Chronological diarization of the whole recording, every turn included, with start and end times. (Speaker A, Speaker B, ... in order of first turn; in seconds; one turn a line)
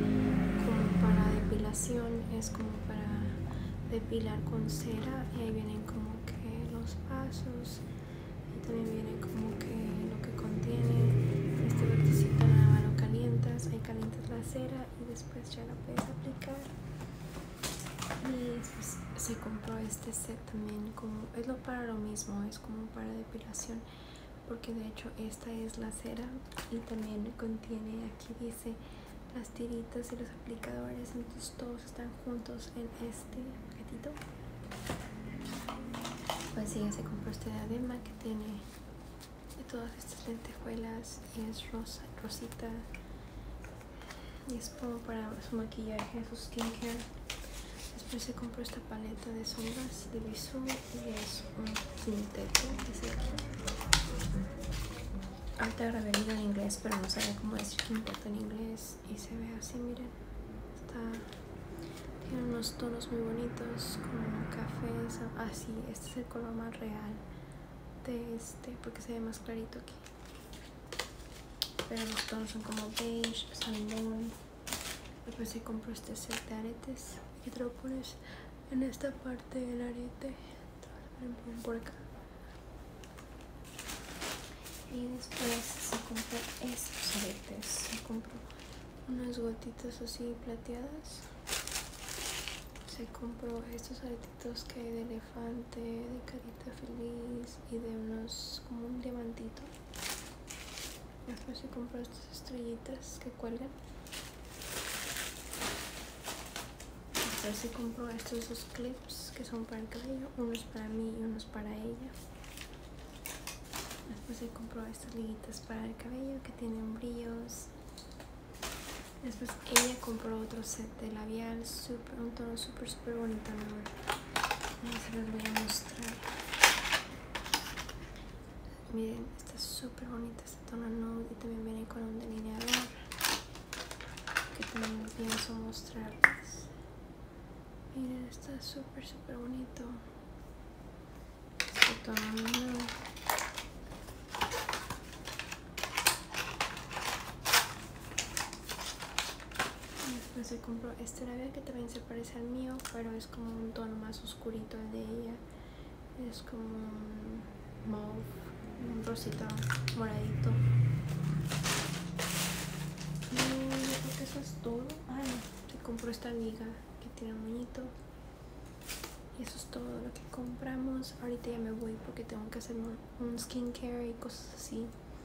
Speaker A: 0.5-7.8
Speaker A: 8.5-16.7
Speaker A: 18.2-23.8
Speaker A: 24.4-34.2
Speaker A: 36.5-38.6
Speaker A: 39.5-42.9
Speaker A: 44.5-47.1
Speaker A: 47.9-53.5
Speaker A: 55.6-60.1
Speaker A: 60.7-61.3
Speaker A: 62.2-67.2
Speaker A: 68.0-70.0
Speaker A: 71.8-74.4
Speaker A: 75.2-82.0
Speaker A: 84.8-88.5
Speaker A: 89.0-91.3
Speaker A: 92.8-99.7
Speaker A: 101.3-103.8
Speaker A: 107.2-112.2
Speaker A: 114.1-117.7
Speaker A: 119.2-123.9
Speaker A: 124.8-126.3
Speaker A: 128.9-132.9
Speaker A: 134.5-136.7
Speaker A: 137.9-140.0
Speaker A: 141.6-142.9
Speaker A: 150.0-155.4
Speaker A: 156.2-160.7
Speaker A: 163.3-167.9
Speaker A: 169.3-174.9